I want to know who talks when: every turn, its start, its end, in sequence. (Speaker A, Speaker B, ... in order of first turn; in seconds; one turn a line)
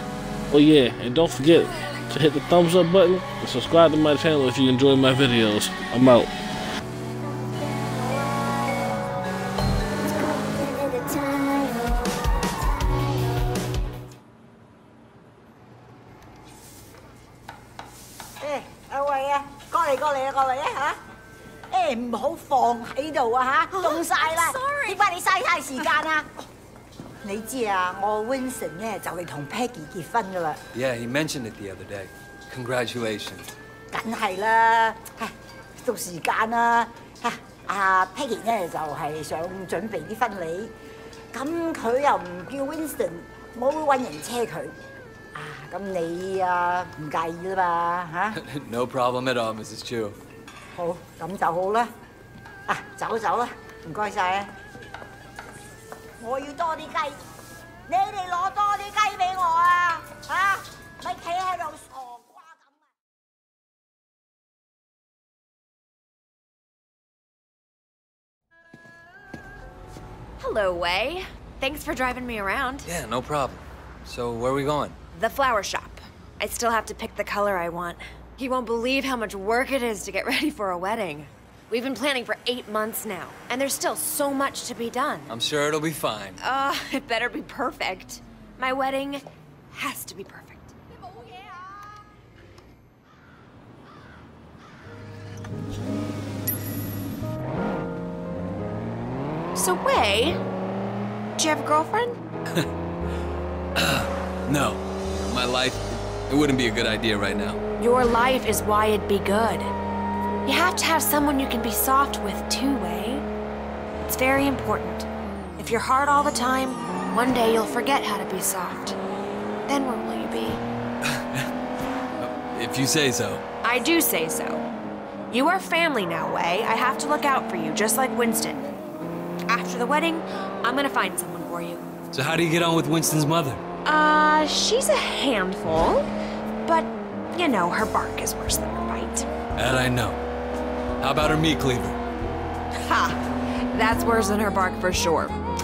Speaker A: 0.5-6.3
Speaker B: 18.4-21.0
Speaker B: 21.7-26.3
Speaker C: 23.7-25.1
Speaker B: 27.2-30.6
Speaker D: 30.7-33.5
Speaker B: 33.9-40.7
Speaker B: 41.3-44.8
Speaker B: 45.3-48.4
Speaker D: 48.4-50.2
Speaker B: 50.8-51.9
Speaker B: 52.7-54.5
Speaker B: 56.2-57.2
Speaker B: 57.9-62.7
Speaker C: 70.4-72.9
Speaker D: 72.8-75.0
Speaker C: 75.1-85.3
Speaker D: 85.3-86.4
Speaker C: 86.4-90.7
Speaker C: 99.5-100.4
Speaker C: 101.4-102.2
Speaker D: 103.8-107.6
Speaker C: 107.8-109.7
Speaker C: 110.5-113.3
Speaker C: 114.0-119.0
Speaker C: 119.7-120.6
Speaker D: 121.0-121.5
Speaker D: 122.2-123.4
Speaker C: 123.6-124.7
Speaker C: 125.3-128.7
Speaker C: 129.5-131.8
Speaker D: 132.1-133.6
Speaker C: 133.8-136.1
Speaker C: 136.7-139.3
Speaker D: 139.6-140.2
Speaker D: 141.0-142.0
Speaker C: 142.8-143.2
Speaker C: 143.7-145.4